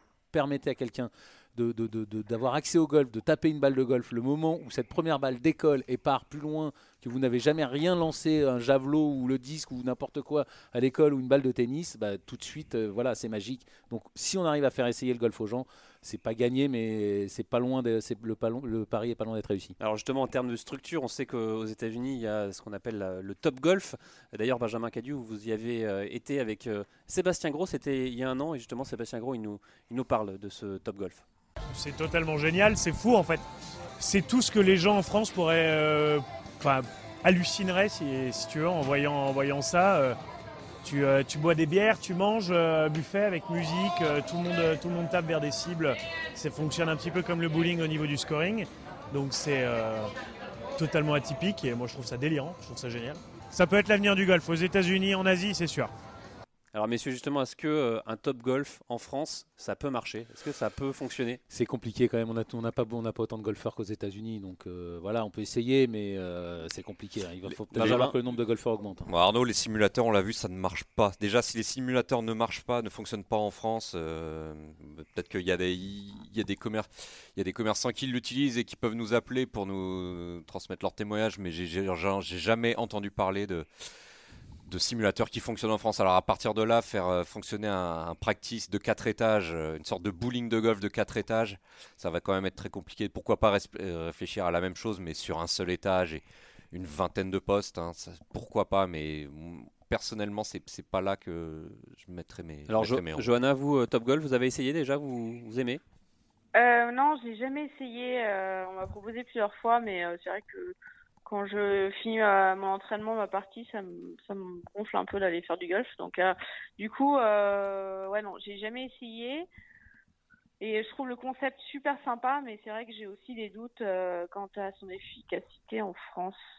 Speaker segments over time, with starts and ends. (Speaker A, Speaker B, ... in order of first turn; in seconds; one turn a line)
Speaker A: 0.3-19.7
Speaker B: 19.8-31.2
Speaker C: 31.7-33.5
Speaker C: 34.0-40.1
Speaker C: 40.8-50.1
Speaker C: 50.8-55.9
Speaker B: 56.7-61.4
Speaker A: 61.5-69.1
Speaker B: 67.7-68.1
Speaker D: 67.7-68.1
Speaker D: 69.0-83.7
Speaker D: 84.7-103.3
Speaker B: 102.7-105.8
Speaker E: 106.5-119.5
Speaker E: 120.6-126.4